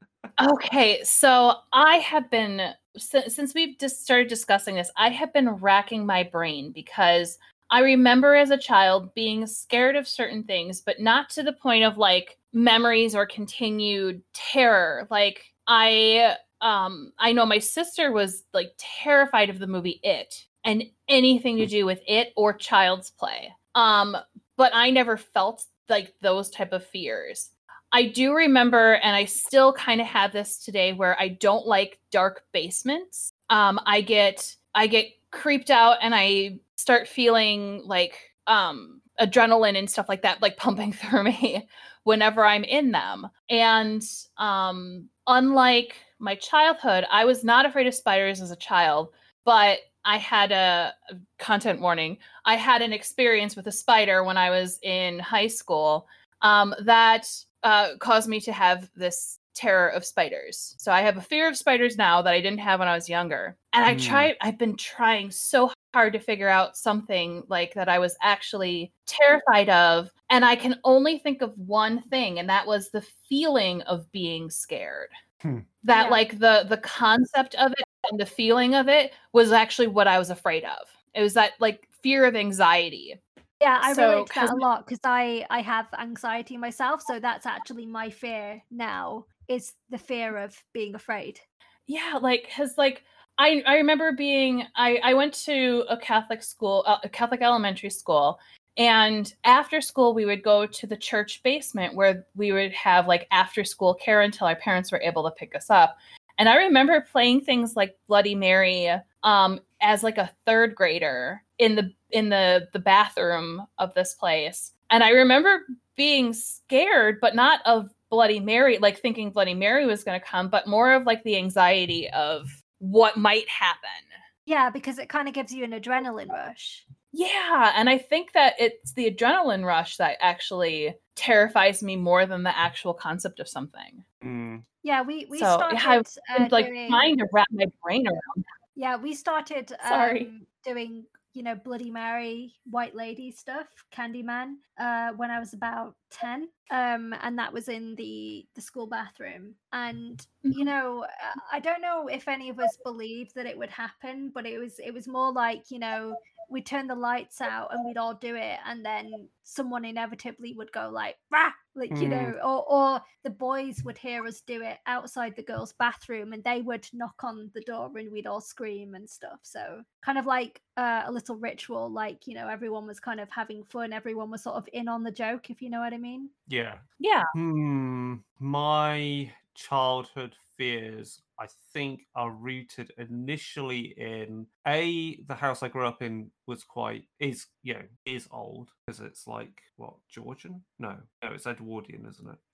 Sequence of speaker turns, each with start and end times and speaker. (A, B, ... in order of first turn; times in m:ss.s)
0:00.4-1:15.1 A
1:03.9-1:04.3 B
1:15.8-1:23.2 A
1:15.9-1:16.2 C
1:23.6-1:31.4 C
1:23.8-1:24.6 A
1:31.9-2:04.1 A
2:04.4-2:06.8 C
2:07.1-2:14.0 A
2:14.2-2:14.6 B
2:14.8-2:17.1 C
2:15.3-2:18.4 A
2:18.8-2:56.3 C
2:19.8-2:20.3 A
2:41.9-2:42.3 B
2:56.5-3:12.4 B
2:57.0-2:57.3 A